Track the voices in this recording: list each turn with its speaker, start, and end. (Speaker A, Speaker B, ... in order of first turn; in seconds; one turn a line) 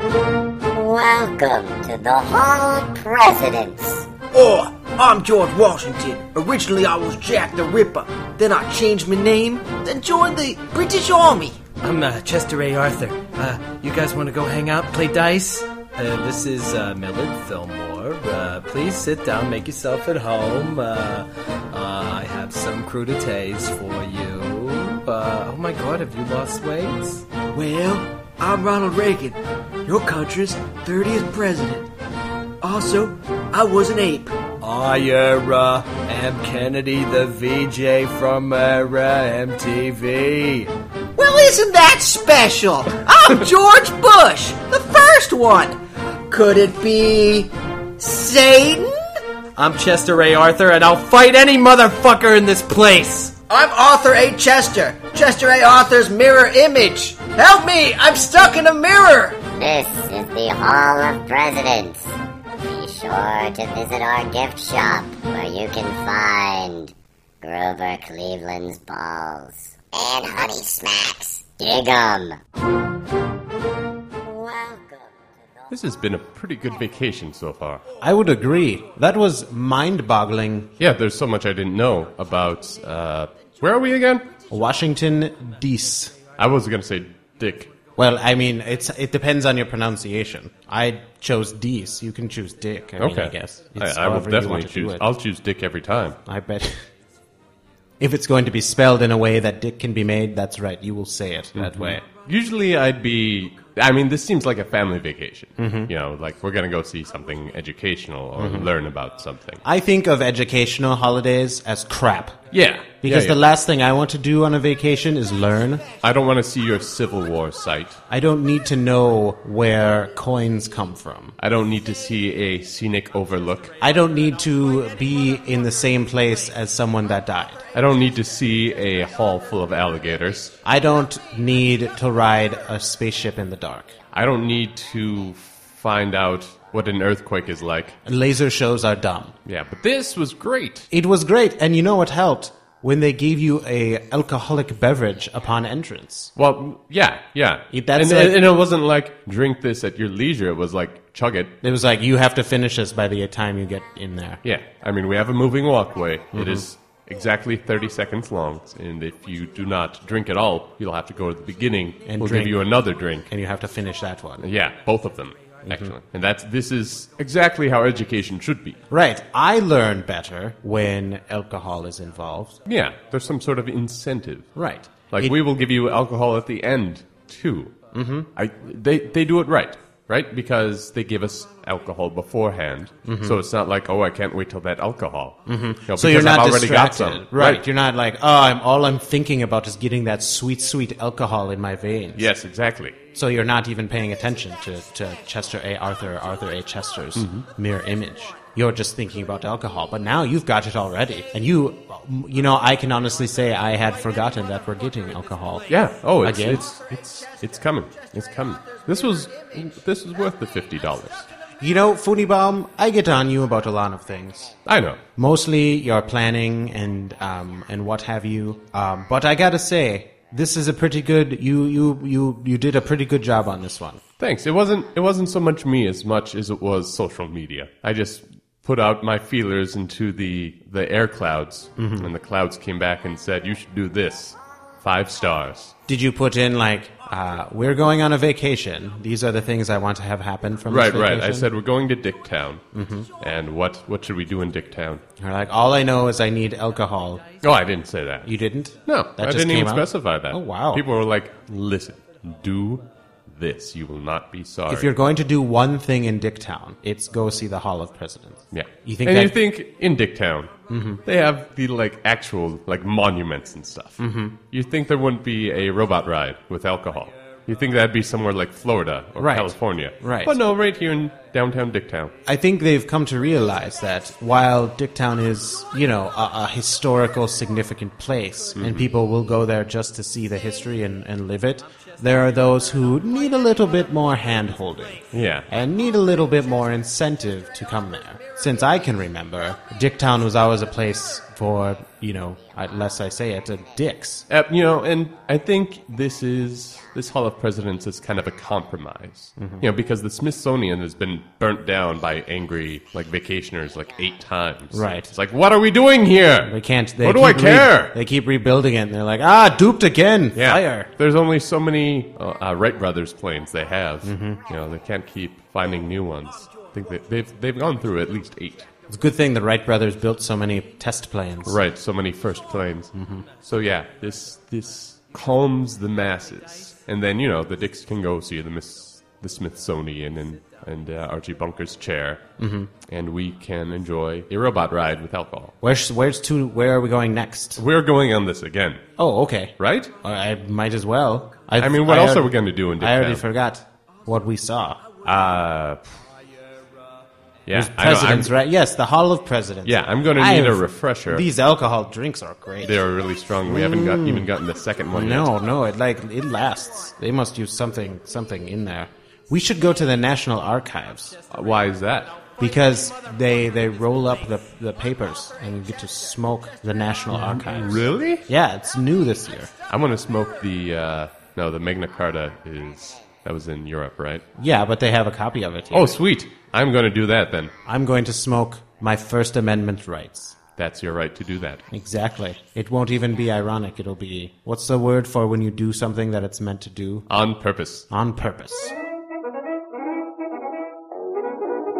Speaker A: 0.7-4.1
Speaker B: 4.3-11.6
Speaker C: 11.8-27.2
Speaker B: 27.5-31.9
Speaker B: 32.6-34.4
Speaker C: 34.6-40.7
Speaker B: 41.2-45.8
Speaker B: 46.3-49.0
Speaker C: 49.6-53.4
Speaker B: 53.5-59.5
Speaker A: 59.5-62.1
Speaker A: 62.6-72.4
Speaker A: 74.2-75.1
Speaker D: 75.7-77.8
Speaker E: 78.0-80.7
Speaker D: 80.8-84.3
Speaker E: 84.5-86.1
Speaker D: 86.3-87.7
Speaker E: 88.0-95.1
Speaker D: 93.0-96.2
Speaker E: 96.2-96.8
Speaker E: 98.0-102.0
Speaker D: 101.5-109.6
Speaker E: 105.6-105.9
Speaker E: 108.4-108.7
Speaker E: 109.6-112.4
Speaker D: 112.5-113.4
Speaker E: 113.0-115.8
Speaker D: 116.0-118.0
Speaker E: 118.1-121.3
Speaker D: 121.4-123.7
Speaker E: 123.8-127.6
Speaker D: 127.7-130.5
Speaker E: 130.6-133.9
Speaker D: 134.1-138.0
Speaker E: 138.0-139.3
Speaker D: 139.4-140.9
Speaker E: 140.9-146.3
Speaker D: 146.3-151.5
Speaker E: 147.7-148.3
Speaker E: 151.6-154.4
Speaker D: 154.4-163.3
Speaker E: 156.3-156.7
Speaker E: 162.0-162.6
Speaker E: 163.3-164.4
Speaker D: 164.4-168.8
Speaker E: 168.9-172.6
Speaker D: 172.7-174.5
Speaker E: 174.5-175.4
Speaker D: 175.1-177.7
Speaker E: 177.9-178.3
Speaker D: 178.3-187.6
Speaker E: 183.0-183.4
Speaker E: 185.4-192.3
Speaker D: 192.2-193.0
Speaker E: 193.1-205.7
Speaker D: 197.2-197.5
Speaker D: 205.7-211.2
Speaker E: 206.2-206.7
Speaker E: 211.6-214.5
Speaker D: 214.7-215.0
Speaker E: 215.2-224.0
Speaker D: 224.2-235.7
Speaker E: 231.8-232.1
Speaker E: 235.9-241.5
Speaker D: 240.7-242.6
Speaker E: 242.7-243.1
Speaker D: 243.2-245.0
Speaker E: 245.2-247.2
Speaker D: 247.4-248.3
Speaker E: 248.2-250.8
Speaker D: 248.8-254.9
Speaker E: 254.7-259.3
Speaker D: 258.5-260.5
Speaker E: 260.7-261.0
Speaker D: 261.1-264.0
Speaker E: 264.0-264.4
Speaker D: 264.5-272.1
Speaker E: 269.2-270.4
Speaker E: 272.2-294.2
Speaker D: 278.6-278.9
Speaker D: 285.1-285.5
Speaker D: 294.3-307.9
Speaker E: 299.4-299.6
Speaker E: 304.7-305.1
Speaker E: 306.4-310.9
Speaker D: 310.4-318.7
Speaker E: 314.0-314.4
Speaker E: 318.9-321.6
Speaker D: 321.4-332.2
Speaker E: 322.9-323.3
Speaker E: 332.4-332.7
Speaker D: 332.9-335.5
Speaker E: 335.6-337.6
Speaker D: 337.6-338.8
Speaker E: 339.0-344.8
Speaker D: 339.6-339.9
Speaker D: 341.6-343.2
Speaker D: 345.0-346.0
Speaker D: 347.5-348.4
Speaker E: 347.5-352.8
Speaker D: 349.6-351.2
Speaker D: 352.6-355.3
Speaker E: 353.4-354.3
Speaker E: 354.9-361.2
Speaker D: 361.3-362.2
Speaker E: 362.4-369.5
Speaker D: 367.1-368.3
Speaker D: 369.7-374.2
Speaker E: 374.4-375.9
Speaker D: 375.7-377.5
Speaker E: 377.6-380.4
Speaker D: 380.6-381.6
Speaker E: 381.7-387.1
Speaker D: 387.1-387.9
Speaker E: 387.9-388.7